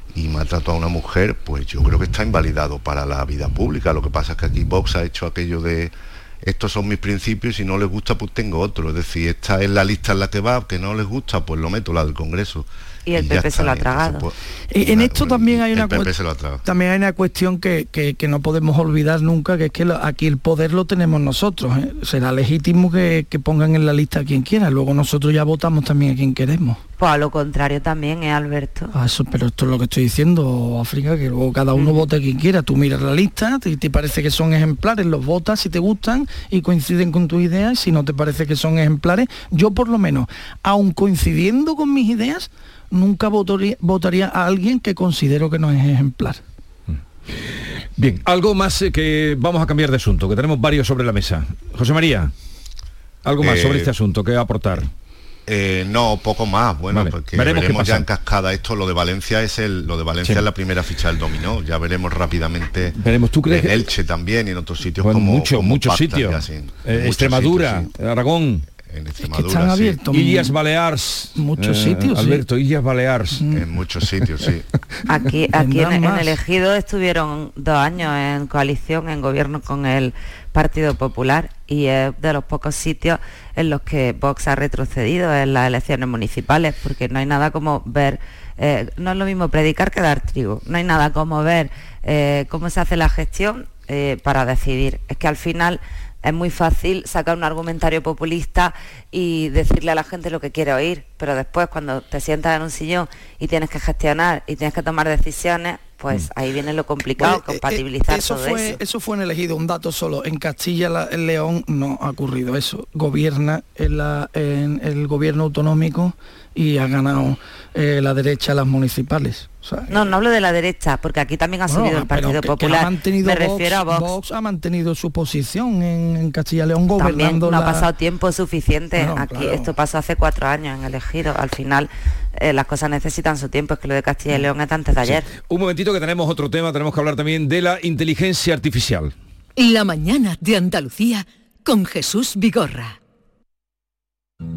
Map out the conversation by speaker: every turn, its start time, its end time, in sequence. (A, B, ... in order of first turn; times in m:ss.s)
0:00.1-0:16.6 A
0:13.1-0:14.2 B
0:14.7-0:16.1 C
0:16.6-0:26.8 C
0:27.0-0:28.9 B
0:28.9-0:46.4 C
0:31.8-0:32.0 B
0:48.0-0:52.3 D
0:53.2-0:54.9 D
0:53.4-0:53.9 A
0:55.5-1:07.9 A
0:56.9-0:58.1 D
1:03.0-1:03.8 D
1:05.0-1:08.6 D
1:08.8-1:10.0 A
1:09.2-1:10.6 C
1:10.1-1:13.4 D
1:11.4-1:12.4 C
1:13.5-1:14.6 A
1:15.1-1:48.8 B
1:15.4-1:16.4 C
1:47.2-1:59.9 C
1:59.9-2:04.1 B
2:01.7-2:07.9 C
2:07.0-2:15.3 B
2:09.0-2:09.7 C
2:15.1-2:19.1 D
2:19.6-2:23.0 E